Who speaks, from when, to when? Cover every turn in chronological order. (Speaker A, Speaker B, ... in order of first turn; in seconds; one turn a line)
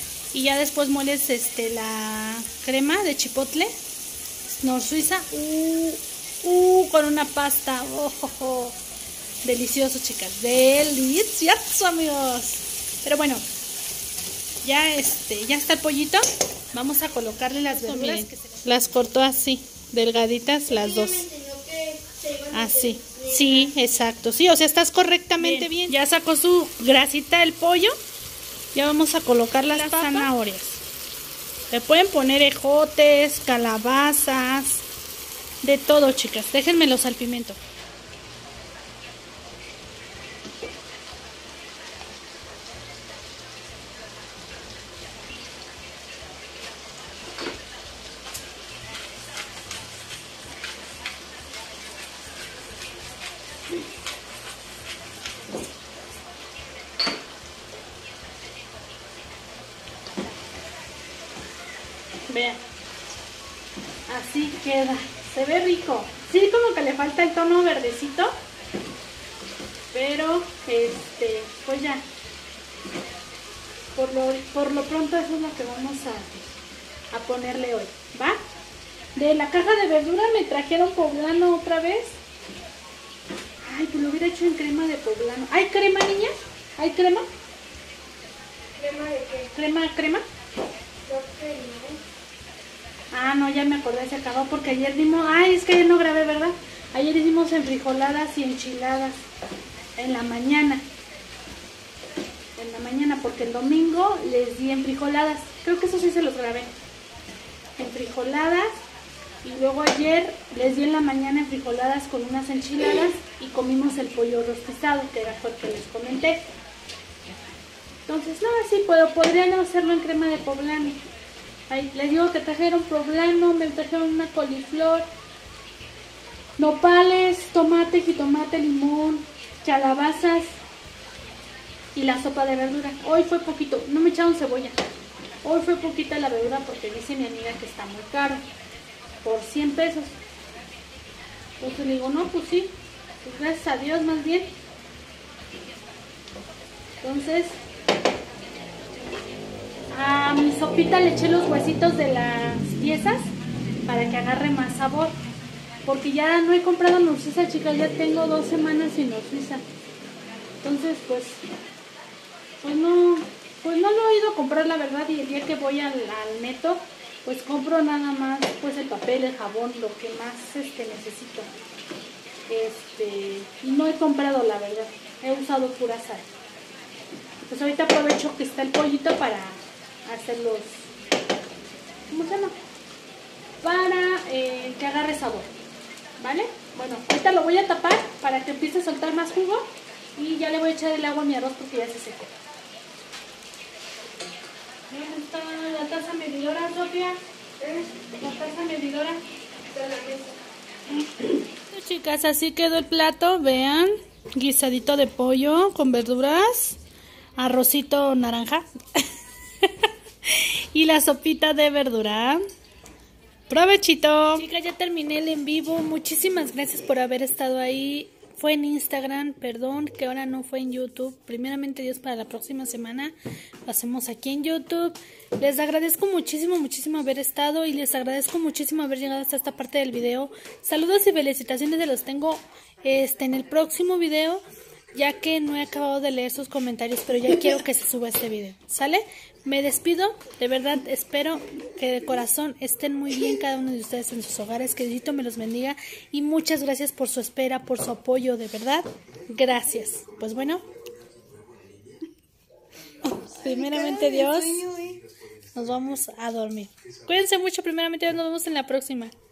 Speaker A: 0.3-3.7
Speaker A: 4.5-8.8
Speaker A: 9.4-13.4
Speaker A: 14.6-21.2
Speaker B: 18.0-18.5
Speaker B: 20.7-23.8
Speaker A: 22.5-27.9
Speaker B: 25.4-25.8
Speaker A: 28.7-30.8
Speaker B: 29.8-30.3
Speaker A: 31.7-34.8
Speaker A: 35.6-37.6
Speaker A: 62.3-62.6
Speaker A: 64.1-68.4
Speaker A: 69.9-72.1
Speaker A: 74.0-76.4
Speaker A: 77.1-78.4
Speaker A: 79.2-82.2
Speaker A: 83.6-87.3
Speaker B: 88.8-89.5
Speaker A: 89.5-90.2
Speaker B: 91.1-92.0
Speaker A: 93.1-99.2
Speaker A: 100.0-100.9
Speaker A: 102.6-106.7
Speaker A: 107.8-108.8
Speaker A: 109.4-116.5
Speaker A: 118.1-121.0
Speaker A: 121.7-125.1
Speaker A: 126.6-130.6
Speaker A: 131.9-134.8
Speaker A: 135.4-138.4
Speaker A: 139.2-140.2
Speaker A: 141.6-144.6
Speaker A: 147.0-147.6
Speaker A: 149.9-153.3
Speaker A: 153.9-155.2
Speaker A: 155.8-159.6
Speaker A: 160.6-161.4
Speaker A: 162.6-171.5
Speaker A: 172.5-176.3
Speaker A: 177.4-180.9
Speaker A: 182.1-182.6
Speaker A: 183.6-185.5
Speaker A: 186.2-192.3
Speaker A: 194.9-197.2
Speaker B: 197.6-198.0
Speaker A: 198.2-199.2
Speaker B: 199.7-200.4
Speaker A: 201.0-206.8
Speaker A: 207.4-209.0
Speaker A: 209.6-212.4
Speaker A: 213.5-223.1
Speaker A: 223.7-234.4
Speaker A: 234.9-250.7
Speaker A: 253.0-254.7
Speaker B: 253.4-255.0
Speaker A: 255.5-259.1